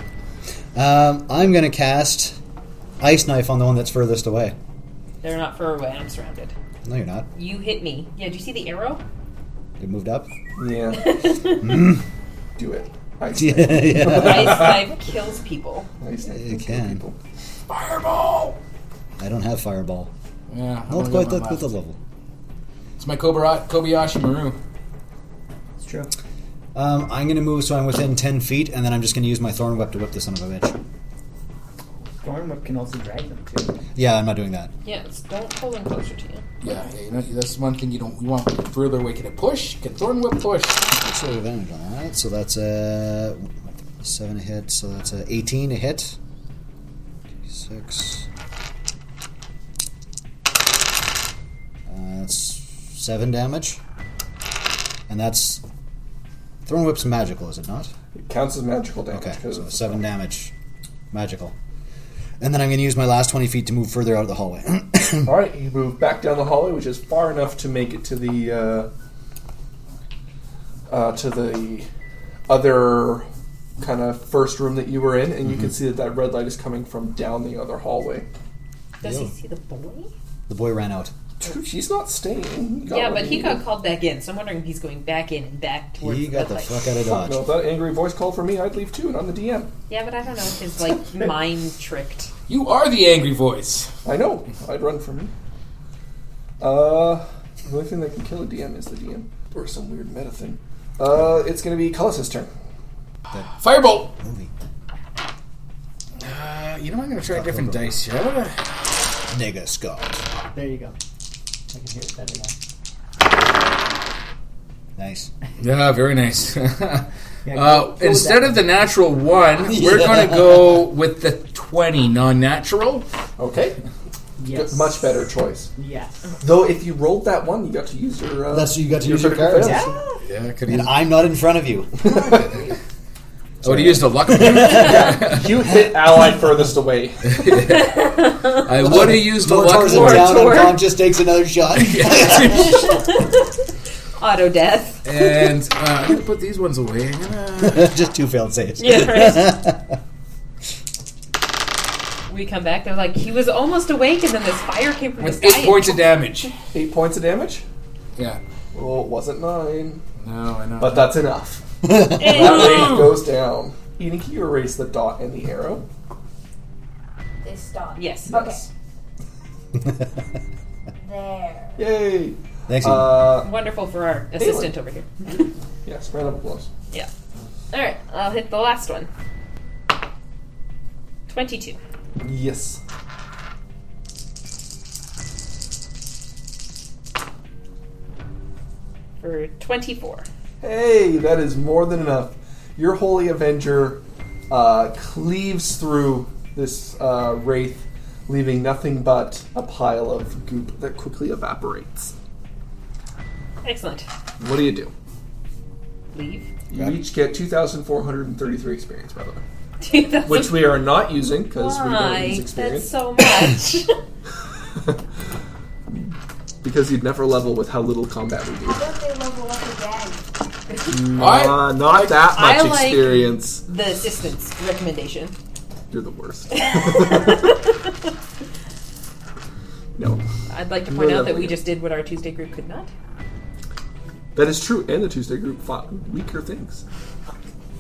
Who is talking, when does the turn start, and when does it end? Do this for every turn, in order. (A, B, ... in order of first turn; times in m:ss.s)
0:00.8-0:02.4 A
0:03.0-0:04.6 A
0:05.2-0:06.5 B
0:06.8-0:07.3 A
0:07.4-0:09.0 B
0:09.8-0:10.3 A
0:10.6-0:11.3 C
0:11.0-0:11.8 B
0:11.6-0:12.0 A
0:12.6-0:14.9 C
0:13.3-0:14.7 A
0:14.0-0:15.9 B
0:16.0-0:17.2 C
0:16.3-0:17.0 A
0:17.7-0:18.6 D
0:19.2-0:20.1 A
0:20.5-0:21.7 D
0:20.9-0:22.0 A
0:23.0-0:24.6 D
0:25.8-0:26.1 E
0:26.8-0:30.8 A
0:32.2-0:33.8 E
0:34.0-0:34.7 A
0:34.8-0:36.5 B
0:36.6-0:40.9 D
0:40.9-0:46.2 A
0:47.5-0:48.3 A
0:51.9-0:53.8 A
0:55.1-0:55.6 A
0:56.7-0:57.9 A
0:58.1-1:00.0 C
0:59.1-1:00.5 A
1:01.1-1:01.5 A
1:02.4-1:05.4 A
1:05.2-1:08.9 C
1:10.9-1:11.9 C
1:12.5-1:13.3 C
1:13.8-1:18.3 C
1:19.0-1:20.1 B
1:19.0-1:19.3 A
1:20.5-1:21.1 A
1:21.4-1:23.6 C
1:22.9-1:26.9 B
1:26.0-1:27.5 A
1:27.0-1:29.7 C
1:29.9-1:32.3 B
1:32.5-1:33.9 D
1:34.0-1:35.3 C
1:36.6-1:42.5 C
1:43.3-1:44.2 D
1:44.2-1:44.5 A
1:46.2-1:48.6 D
1:47.3-1:48.0 A
1:49.3-1:50.2 A
1:50.5-1:51.0 E
1:51.7-1:52.6 E
1:55.0-1:55.3 A
1:55.6-2:03.1 D
1:57.5-1:58.7 E
1:59.7-2:00.5 A
2:03.4-2:03.8 C
2:04.4-2:05.2 E
2:04.5-2:05.7 C
2:05.8-2:06.4 E
2:06.4-2:10.0 C
2:08.5-2:10.0 A
2:09.6-2:10.2 E
2:10.2-2:11.0 D
2:10.7-2:12.5 A
2:12.2-2:12.5 D
2:13.6-2:15.2 A
2:13.6-2:15.5 D
2:14.6-2:17.6 C
2:17.3-2:20.5 D
2:17.6-2:18.9 B
2:18.8-2:22.8 A
2:19.7-2:20.8 B
2:21.8-2:22.9 D
2:22.4-2:23.6 B
2:24.2-2:25.1 B
2:25.0-2:27.9 D
2:27.6-2:30.0 A
2:28.8-2:29.6 B
2:32.3-2:36.0 B
2:35.2-2:36.6 D
2:36.6-2:37.6 C
2:38.7-2:40.0 C
2:40.2-2:41.2 D
2:40.8-2:41.6 C
2:41.8-2:42.4 A
2:42.2-2:43.0 B
2:42.2-2:45.8 C
2:42.2-2:43.2 D
2:47.4-2:48.7 F
2:48.0-2:48.4 B
2:48.3-2:48.7 C
2:51.0-2:52.0 F
2:51.8-2:53.5 C
2:52.7-2:53.3 A
2:53.4-2:55.5 B
2:54.4-2:54.7 C
2:55.8-2:56.7 C
2:57.7-2:59.1 B
3:01.3-3:01.8 B
3:02.2-3:02.8 C
3:09.2-3:10.3 B
3:10.6-3:22.2 C
3:23.6-3:24.1 B
3:24.4-3:24.9 C
3:26.1-3:26.5 B
3:26.7-3:29.4 C
3:29.8-3:30.7 B
3:30.2-3:32.9 C
3:31.5-3:34.0 B
3:36.6-3:38.8 C
3:38.6-3:40.2 F
3:40.9-3:43.6 C
3:41.2-3:42.3 D
3:42.3-3:45.4 B
3:45.9-3:47.4 C
3:46.5-3:48.1 B
3:50.0-3:50.2 C
3:50.5-3:52.9 B
3:50.9-3:51.6 C
3:54.4-3:56.8 C